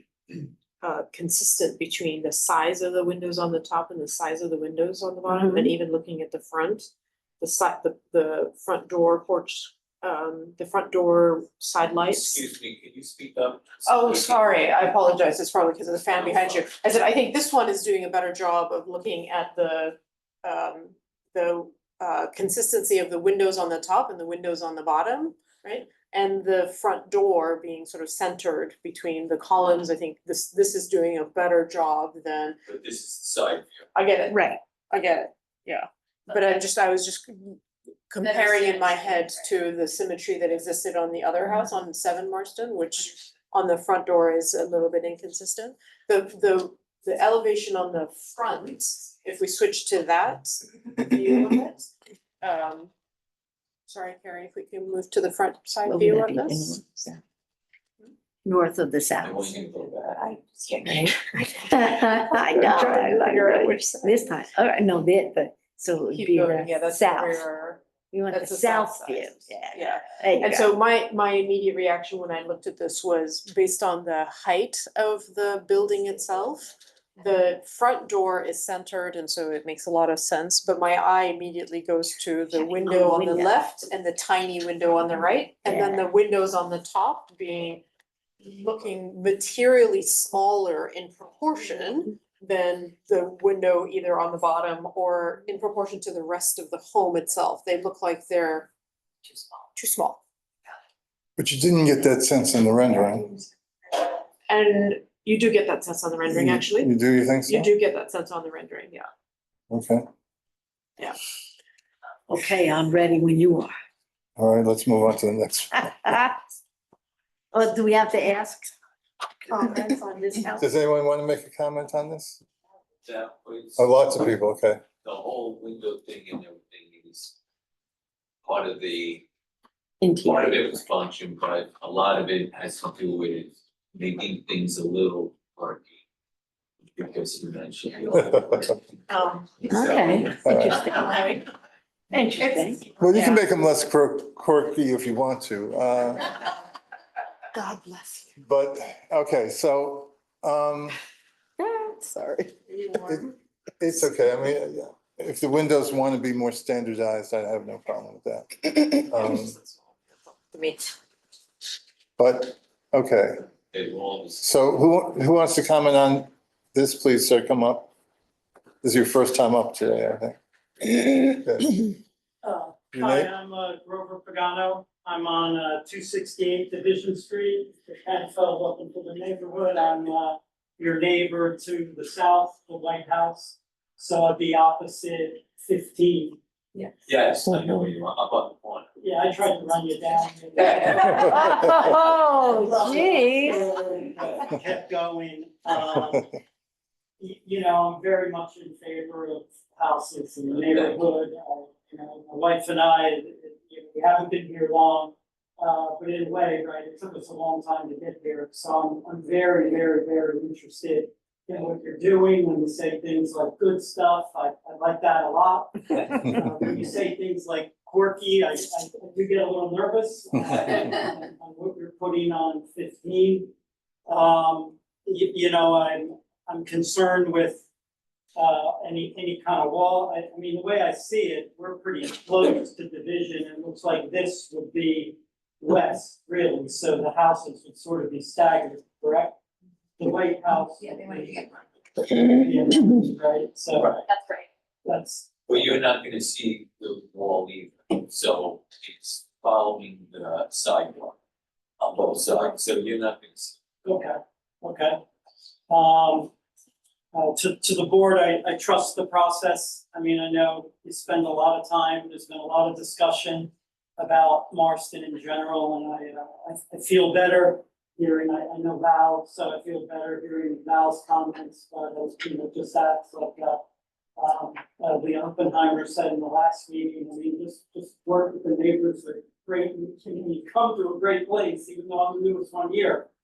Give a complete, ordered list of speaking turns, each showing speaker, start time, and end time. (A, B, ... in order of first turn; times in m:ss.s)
0:00.3-0:12.4 A
0:05.3-0:05.7 B
0:12.1-0:14.3 C
0:13.8-0:32.6 A
0:16.1-0:16.6 C
0:32.6-0:33.8 C
0:33.9-0:52.9 A
0:34.3-0:34.6 B
0:53.8-0:56.8 A
0:55.8-0:57.2 B
0:58.4-0:59.5 B
0:59.2-1:00.7 C
1:00.7-1:07.4 B
1:01.5-1:02.0 A
1:02.5-1:04.2 A
1:06.1-1:27.8 A
1:08.1-1:10.7 B
1:22.7-1:23.5 B
1:25.6-1:26.0 B
1:28.4-1:38.7 A
1:39.7-1:40.2 A
1:41.4-1:43.4 D
1:44.5-1:46.9 A
1:46.3-1:47.7 D
1:47.5-1:49.1 A
1:49.7-1:50.0 D
1:52.3-1:53.7 B
1:54.4-1:55.9 D
1:56.0-1:56.3 B
1:57.5-1:58.7 B
1:59.5-2:00.6 B
1:59.5-2:00.0 A
2:00.6-2:02.4 D
2:03.0-2:04.1 C
2:03.8-2:04.8 D
2:05.0-2:07.4 C
2:08.4-2:09.2 C
2:10.0-2:10.6 B
2:10.2-2:15.9 C
2:17.0-2:18.8 C
2:19.1-2:21.4 A
2:19.7-2:20.9 B
2:19.8-2:20.1 C
2:20.4-2:20.8 D
2:22.1-2:22.8 B
2:23.0-2:26.2 D
2:23.1-2:23.4 A
2:27.6-2:28.2 B
2:28.4-2:31.0 D
2:31.7-2:32.5 B
2:32.7-2:33.0 A
2:33.8-2:39.5 D
2:39.1-2:40.9 A
2:42.2-2:43.5 D
2:43.7-2:44.4 C
2:44.4-2:47.9 D
2:48.8-2:51.8 D
2:52.4-3:06.4 E
2:52.9-2:53.3 D
3:07.0-3:08.9 C
3:09.0-3:16.2 E
3:10.7-3:13.9 B
3:17.2-3:43.5 E
3:20.5-3:21.0 C
3:44.0-3:47.6 E
3:48.3-3:59.3 E
4:00.0-4:01.6 E
4:02.1-4:04.0 E
4:03.7-4:04.0 C
4:04.8-4:05.3 E
4:05.4-4:11.2 C
4:11.8-4:13.5 C
4:13.8-4:15.0 E
4:15.7-4:16.3 E
4:17.1-4:33.6 E
4:34.2-4:43.1 E